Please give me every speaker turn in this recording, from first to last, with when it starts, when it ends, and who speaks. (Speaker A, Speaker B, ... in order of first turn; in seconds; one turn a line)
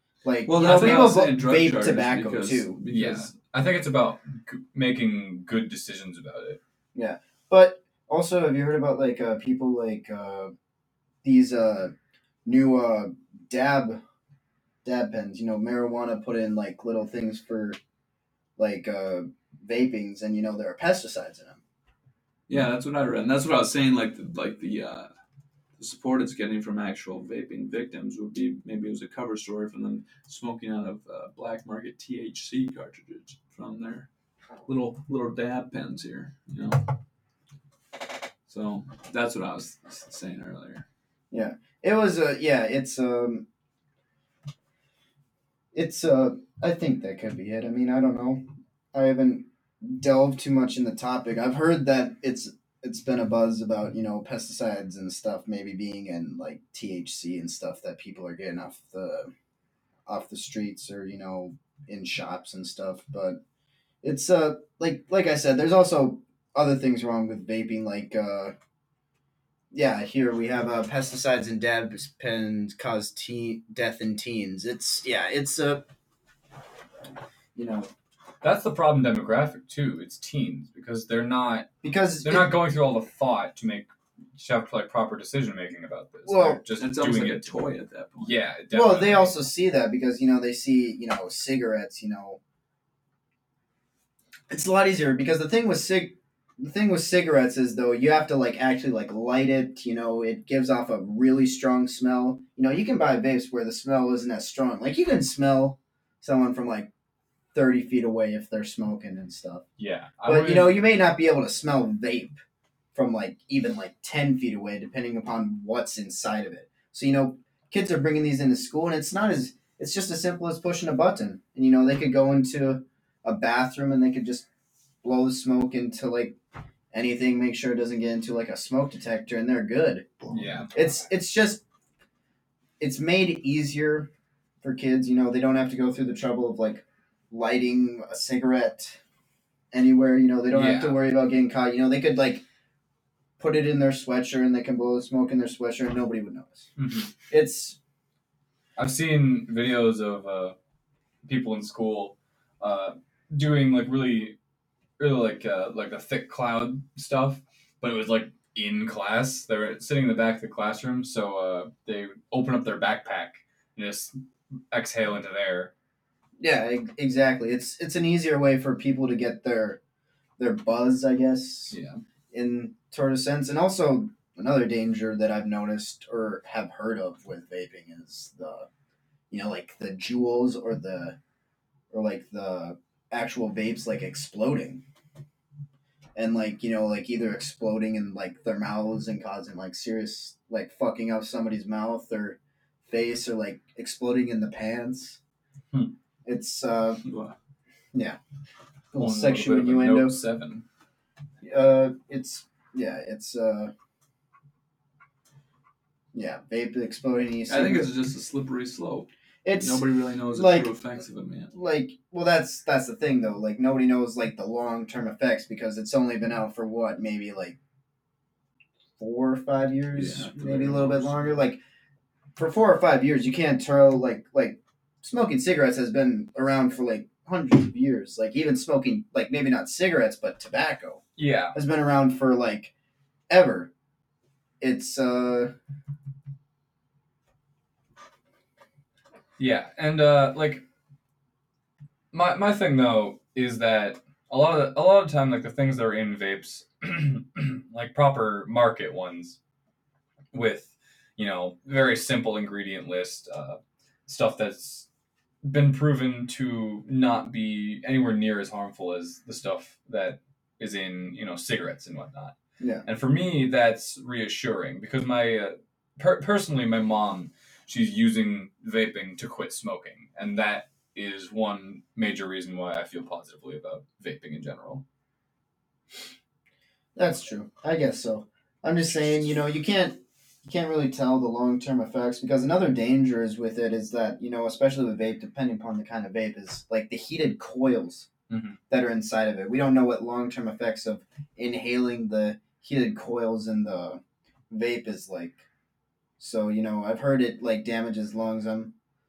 Speaker A: 0.2-2.8
Speaker B: 0.5-3.3
Speaker C: 0.5-1.2
Speaker C: 2.9-6.6
Speaker A: 6.9-10.5
Speaker A: 11.2-11.9
Speaker A: 12.4-14.0
Speaker A: 14.8-17.8
Speaker A: 18.6-21.6
Speaker B: 22.5-25.1
Speaker B: 25.8-34.1
Speaker B: 34.7-36.8
Speaker B: 38.5-40.8
Speaker A: 41.3-43.5
Speaker A: 45.7-59.3
Speaker A: 60.0-63.4
Speaker A: 64.0-68.5
Speaker A: 69.7-75.9
Speaker A: 77.5-77.9
Speaker C: 78.4-81.7
Speaker A: 81.8-82.5
Speaker C: 82.2-87.6
Speaker A: 86.2-86.6
Speaker B: 86.8-88.3
Speaker C: 88.2-89.4
Speaker A: 88.7-92.4
Speaker A: 94.5-106.9
Speaker A: 107.5-109.6
Speaker C: 109.8-110.8
Speaker A: 110.3-112.4
Speaker A: 112.9-124.5
Speaker A: 125.0-126.4
Speaker A: 126.9-130.2
Speaker C: 130.3-130.7
Speaker A: 130.7-131.6
Speaker A: 132.8-134.1
Speaker A: 134.6-139.0
Speaker A: 139.7-142.4
Speaker C: 140.5-141.0
Speaker A: 143.4-146.7
Speaker C: 146.8-147.1
Speaker A: 147.3-147.8
Speaker C: 148.8-150.6
Speaker C: 151.2-154.3
Speaker C: 155.0-164.1
Speaker C: 164.7-165.7
Speaker A: 166.4-169.8
Speaker A: 170.4-171.8
Speaker C: 171.7-172.0
Speaker A: 172.3-178.7
Speaker A: 179.3-181.2
Speaker A: 181.9-184.8
Speaker A: 186.1-195.2
Speaker A: 196.2-197.0
Speaker B: 197.0-197.3
Speaker A: 198.9-200.2
Speaker C: 198.9-200.6
Speaker A: 201.4-203.7
Speaker A: 206.1-207.9
Speaker B: 207.5-211.5
Speaker A: 209.4-209.8
Speaker A: 210.3-210.7
Speaker A: 211.5-217.6
Speaker A: 219.0-221.6
Speaker B: 219.9-221.3
Speaker A: 222.3-231.0
Speaker C: 231.2-231.5
Speaker A: 231.5-232.7
Speaker A: 233.3-233.7
Speaker A: 234.6-235.5
Speaker C: 239.4-240.6
Speaker C: 242.1-249.4
Speaker C: 250.3-254.9
Speaker C: 255.4-274.8
Speaker A: 262.6-262.9
Speaker A: 276.9-288.1
Speaker C: 288.3-288.6
Speaker A: 288.7-295.4
Speaker A: 296.2-298.7